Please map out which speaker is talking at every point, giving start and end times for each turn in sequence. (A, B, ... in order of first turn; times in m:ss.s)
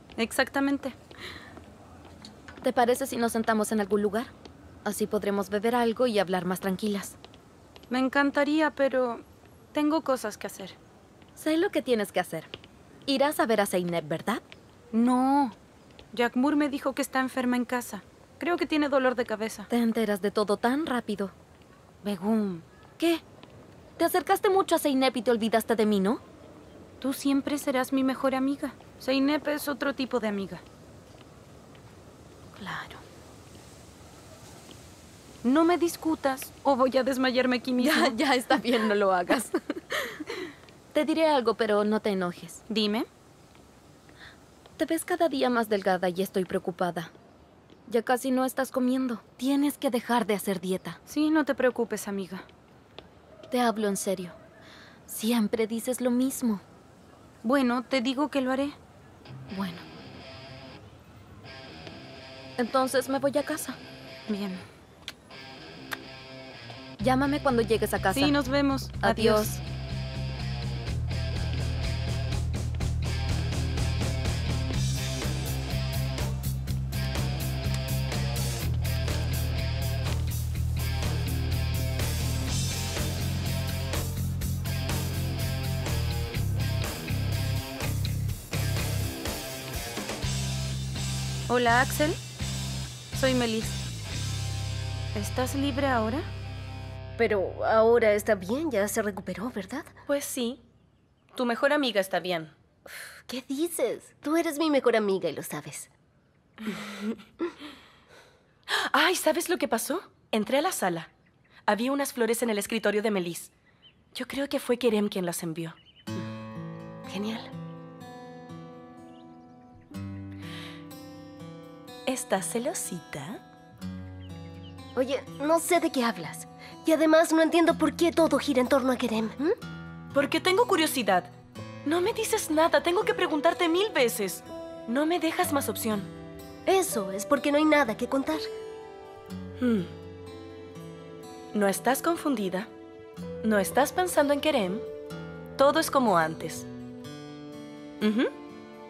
0:00.2-0:01.0 A
0:02.6-0:04.3 B
0:04.8-0:07.2 B
0:07.9-0:10.8 A
0:11.4-0:12.5 B
0:13.1-0:14.4 B
0:14.9-0:15.6 A
0:16.1-0:19.7 A
0:19.7-0:21.3 B
0:22.0-0:22.6 A
0:24.0-0:26.2 B
0:27.0-0:30.6 A
0:32.6-0:33.0 B
0:32.6-0:32.9 A
0:35.4-0:38.2 A
0:37.8-0:40.2 B
0:40.9-0:42.6 B
0:42.7-0:43.1 A
0:44.8-0:47.1 B
0:47.9-0:51.0 B
0:51.1-0:52.4 A
0:53.5-0:54.4 B
0:55.1-0:56.6 B
0:57.4-0:58.8 A
0:59.5-0:59.8 A
1:02.6-1:03.8 B
1:04.3-1:04.6 A
1:07.0-1:08.4 B
1:08.1-1:09.5 A
1:09.0-1:09.6 B
1:31.5-1:32.2 A
1:33.1-1:33.8 A
1:35.1-1:36.3 A
1:37.2-1:39.9 C
1:40.1-1:40.6 D
1:41.3-1:42.5 D
1:43.3-1:45.9 C
1:48.7-1:51.1 D
1:51.7-1:53.5 D
1:54.1-1:55.8 D
1:57.1-1:57.5 C
2:02.1-2:03.4 D
2:05.0-2:09.6 C
2:10.1-2:11.3 D
2:11.8-2:16.1 D
2:16.7-2:18.4 C
2:19.6-2:19.9 D
2:21.5-2:22.7 D
2:23.4-2:24.9 D
2:25.6-2:26.7 D
2:28.0-2:28.3 D